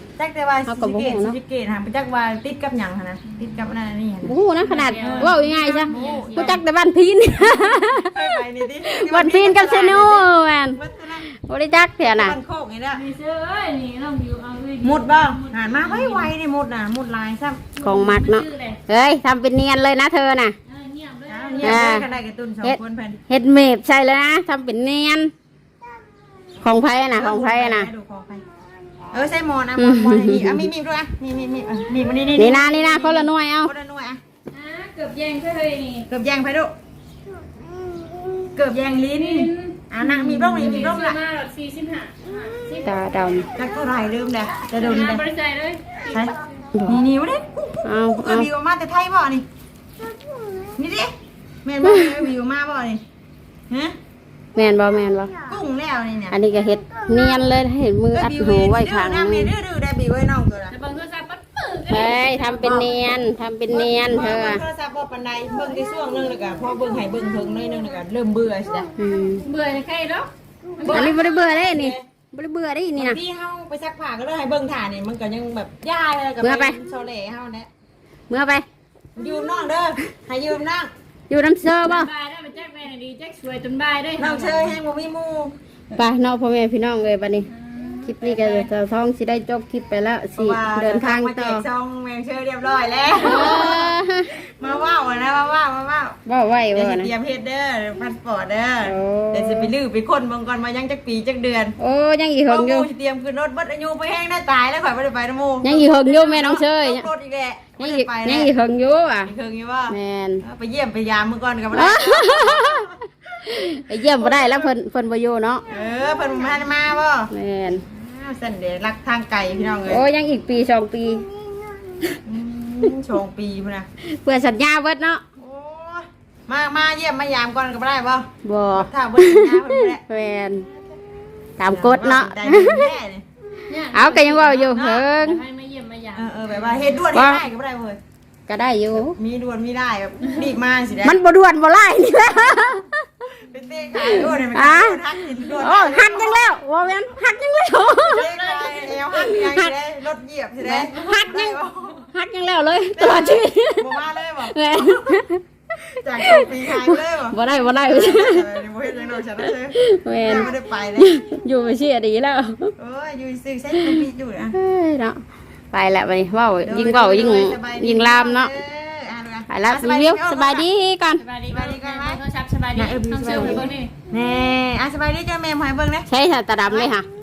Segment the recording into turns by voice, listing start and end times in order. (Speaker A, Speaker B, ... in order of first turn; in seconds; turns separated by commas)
Speaker A: 0.2-4.3, Speaker B: 0.7-1.4, Speaker B: 4.2-12.3, Speaker C: 4.6-6.6, Speaker A: 5.0-5.3, Speaker A: 5.9-6.6, Speaker A: 7.5-11.2, Speaker A: 12.0-13.0, Speaker C: 12.9-16.3, Speaker A: 14.8-17.7, Speaker C: 17.7-18.8, Speaker B: 17.8-20.6, Speaker C: 20.7-22.0, Speaker A: 21.3-23.2, Speaker B: 21.6-22.0, Speaker B: 23.3-25.3, Speaker B: 26.6-27.9, Speaker A: 27.1-28.4, Speaker A: 29.1-34.2, Speaker B: 29.8-30.7, Speaker B: 32.4-33.7, Speaker C: 34.5-36.1, Speaker A: 36.1-36.7, Speaker A: 38.5-41.2, Speaker C: 39.2-42.9, Speaker B: 42.8-43.5, Speaker A: 43.5-45.2, Speaker C: 44.7-46.5, Speaker A: 46.1-49.4, Speaker B: 47.8-48.5, Speaker A: 50.8-53.0, Speaker B: 51.8-52.1, Speaker A: 53.7-54.0, Speaker B: 54.5-55.3, Speaker A: 55.5-56.4, Speaker B: 56.3-59.5, Speaker A: 58.1-60.7, Speaker C: 60.7-63.1, Speaker B: 61.9-64.6, Speaker A: 63.7-68.9, Speaker B: 69.0-69.4, Speaker C: 69.4-71.1, Speaker A: 70.8-72.0, Speaker B: 70.9-73.2, Speaker A: 73.0-77.7, Speaker B: 76.4-76.8, Speaker B: 78.3-78.7, Speaker A: 79.2-80.9, Speaker B: 81.3-82.1, Speaker C: 81.8-84.8, Speaker A: 84.2-85.5, Speaker B: 86.0-87.5, Speaker C: 87.5-88.6, Speaker B: 88.0-91.6, Speaker A: 90.4-96.2, Speaker B: 93.1-94.3, Speaker B: 96.2-97.1, Speaker A: 96.7-101.7, Speaker B: 98.8-99.7, Speaker B: 101.8-102.9, Speaker A: 102.5-108.5, Speaker B: 105.6-107.1, Speaker B: 107.8-109.3, Speaker A: 109.2-113.0, Speaker B: 109.9-110.4, Speaker B: 111.7-112.9, Speaker B: 113.4-115.6, Speaker A: 114.0-114.7, Speaker A: 115.7-117.3, Speaker B: 117.3-117.8, Speaker A: 117.9-120.0, Speaker B: 119.9-121.2, Speaker A: 122.2-123.9, Speaker B: 124.0-125.2, Speaker A: 125.4-130.0, Speaker B: 128.4-130.7, Speaker B: 131.6-132.9, Speaker A: 131.7-133.2, Speaker C: 133.7-136.8, Speaker B: 133.9-135.4, Speaker A: 134.7-135.1, Speaker A: 136.1-138.0, Speaker B: 137.1-137.4, Speaker B: 138.5-139.2, Speaker A: 138.9-141.2, Speaker B: 141.0-143.0, Speaker A: 143.4-146.6, Speaker B: 144.0-149.7, Speaker A: 148.0-152.1, Speaker B: 150.6-153.9, Speaker A: 152.9-155.2, Speaker B: 154.5-158.5, Speaker A: 155.9-161.2, Speaker B: 159.7-162.7, Speaker A: 162.8-164.6, Speaker B: 163.8-168.5, Speaker A: 166.6-170.7, Speaker B: 169.5-171.2, Speaker C: 171.2-173.9, Speaker A: 171.5-172.2, Speaker A: 172.7-176.1, Speaker B: 173.3-173.6, Speaker B: 176.1-177.1